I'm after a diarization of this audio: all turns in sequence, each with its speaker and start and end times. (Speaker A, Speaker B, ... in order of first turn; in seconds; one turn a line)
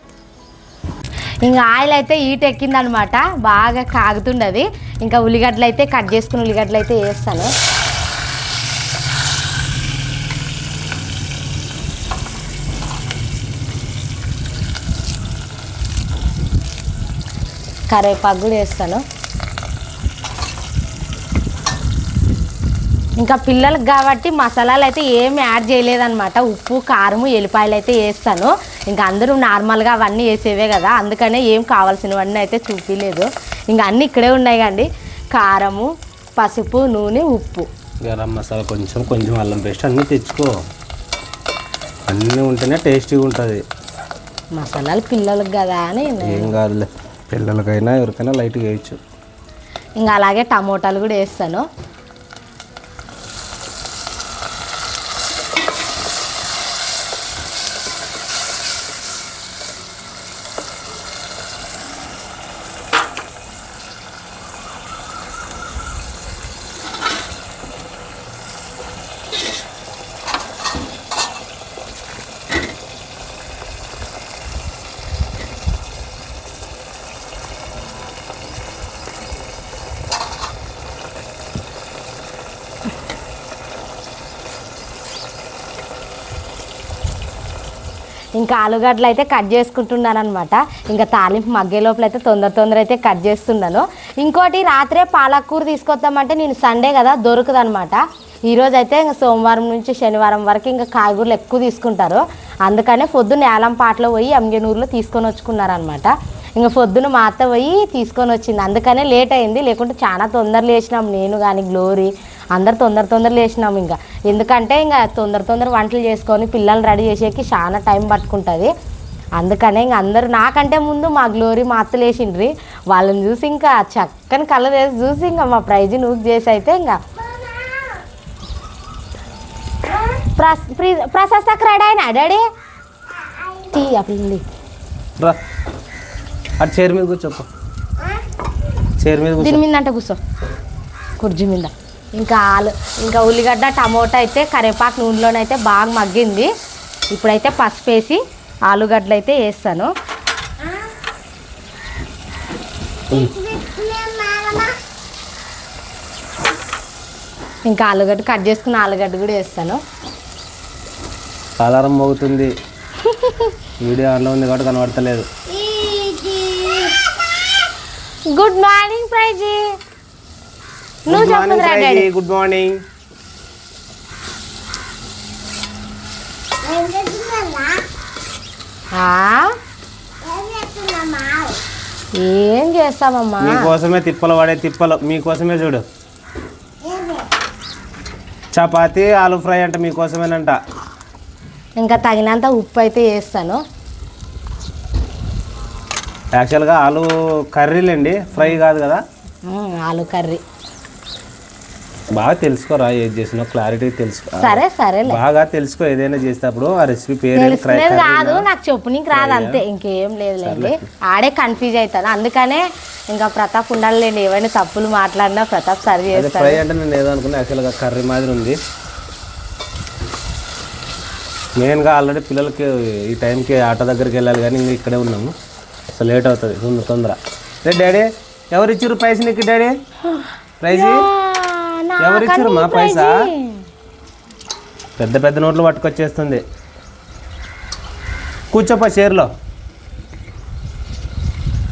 Speaker A: 1.4-7.5
Speaker A: 17.9-19.0
Speaker A: 23.2-37.7
Speaker B: 38.0-40.6
Speaker B: 42.1-43.6
Speaker A: 44.5-46.5
Speaker B: 46.2-49.0
Speaker A: 50.0-51.6
Speaker A: 88.3-118.7
Speaker A: 119.4-127.5
Speaker A: 130.0-132.4
Speaker A: 133.4-134.4
Speaker B: 136.6-137.5
Speaker B: 139.0-139.6
Speaker A: 139.4-140.2
Speaker A: 141.2-146.5
Speaker A: 147.1-149.9
Speaker A: 153.1-154.8
Speaker A: 157.7-159.8
Speaker B: 161.6-162.5
Speaker A: 163.0-163.6
Speaker B: 163.8-165.3
Speaker A: 165.5-167.0
Speaker A: 168.3-169.7
Speaker B: 171.1-172.8
Speaker A: 171.1-172.1
Speaker A: 176.6-177.8
Speaker A: 178.9-179.5
Speaker A: 180.2-181.6
Speaker A: 182.1-183.7
Speaker B: 183.4-185.8
Speaker A: 186.8-187.2
Speaker B: 188.5-190.6
Speaker A: 191.8-193.6
Speaker B: 196.3-199.0
Speaker A: 199.4-200.4
Speaker B: 202.1-208.5
Speaker A: 204.4-205.2
Speaker A: 207.3-216.6
Speaker B: 209.1-209.6
Speaker B: 210.4-210.9
Speaker B: 216.1-218.6
Speaker B: 221.6-225.3
Speaker B: 225.9-229.8
Speaker A: 230.0-233.7
Speaker B: 230.6-231.1
Speaker B: 232.0-233.3
Speaker B: 235.0-236.4
Speaker B: 238.5-239.3